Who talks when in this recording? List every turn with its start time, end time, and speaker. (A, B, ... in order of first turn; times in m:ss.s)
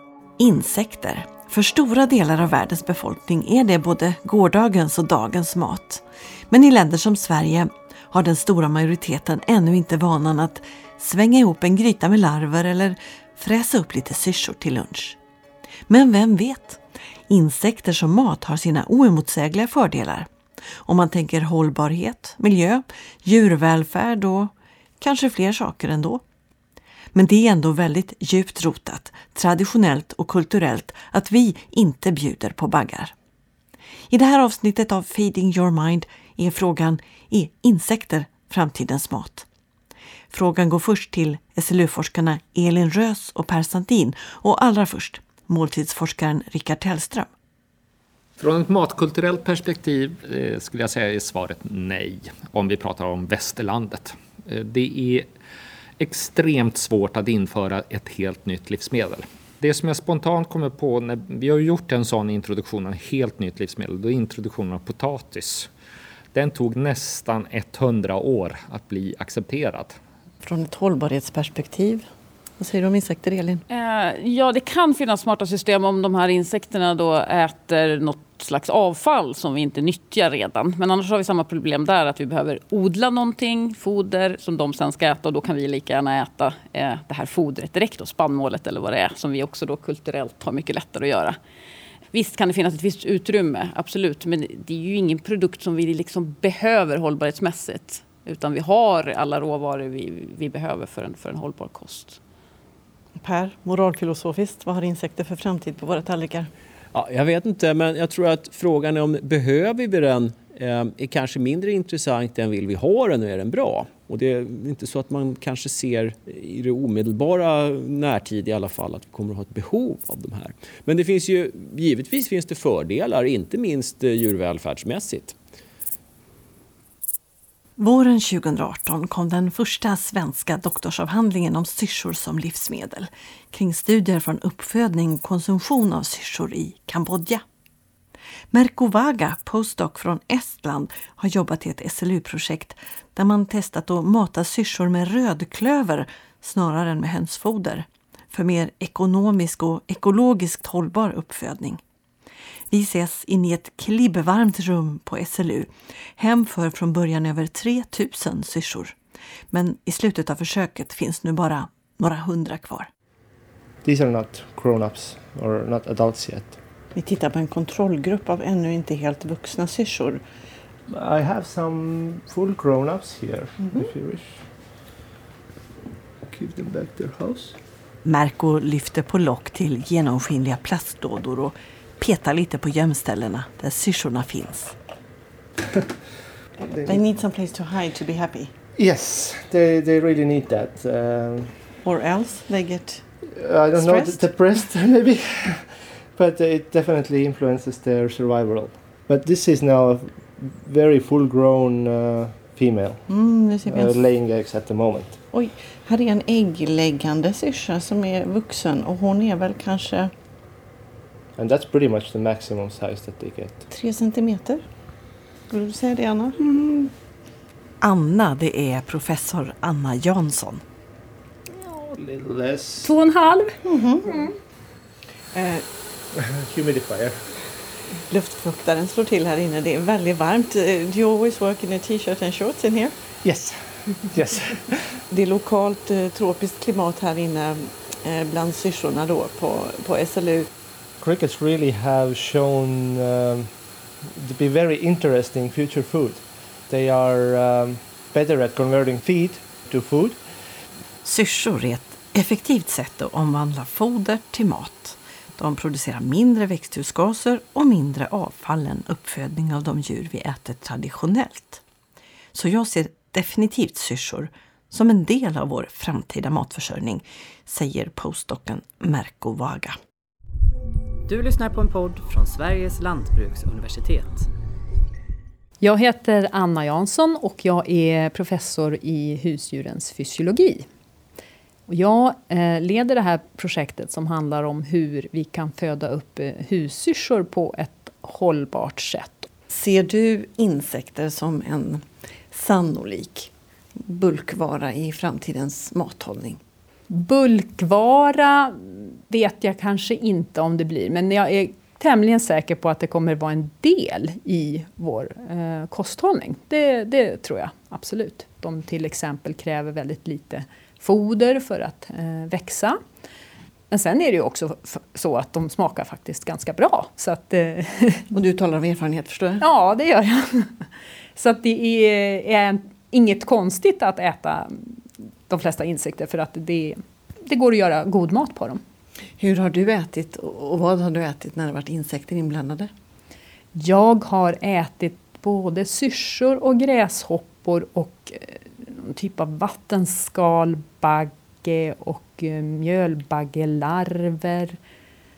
0:00.4-0:15.2 A
0:15.9-0:20.3 A
0:20.8-0:26.2 A
0:27.1-0:33.1 A
0:34.1-0:39.5 A
0:40.3-0:47.3 A
0:48.4-0:55.3 B
0:56.0-1:05.7 B
1:06.3-1:10.0 B
1:10.4-1:12.0 A
1:12.6-1:13.6 A
1:13.7-1:31.4 C
1:32.1-1:42.2 C
1:43.2-1:46.5 A
1:46.9-2:05.4 D
2:07.8-2:17.4 A
2:18.5-2:31.8 A
2:32.7-2:39.0 A
2:39.5-2:42.9 A
2:43.8-2:46.6 E
2:46.9-2:50.2 A
2:50.9-2:54.4 E
2:53.6-2:53.9 A
2:56.2-2:57.6 E
2:58.0-3:04.7 A
3:06.6-3:07.0 E
3:06.8-3:08.5 A
3:08.8-3:11.5 E
3:11.8-3:13.0 A
3:13.3-3:23.0 E
3:13.7-3:14.3 A
3:23.1-3:24.0 A
3:23.6-3:25.2 E
3:25.3-3:30.1 A
3:31.4-3:33.6 E
3:33.7-3:34.6 A
3:35.5-3:36.9 A
3:37.8-3:40.6 A
3:41.6-3:43.0 E
3:42.8-3:43.6 F
3:43.6-3:44.1 A
3:45.3-3:45.6 A
3:46.1-3:47.3 E
3:48.1-3:52.9 A
3:53.2-3:55.0 E
3:55.1-4:00.5 A
4:01.0-4:03.5 E
4:04.1-4:10.2 E
4:11.0-4:21.6 A
4:22.3-4:29.8 A
4:31.1-4:34.3 G
4:35.6-4:40.7 F
4:41.7-4:49.3 F
4:49.5-4:56.4 A
4:56.9-5:12.8 F
5:13.7-5:18.0 F
5:18.1-5:19.4 A
5:19.4-5:20.6 F
5:21.2-5:28.6 F
5:29.2-5:32.7 A
5:33.5-5:44.6 F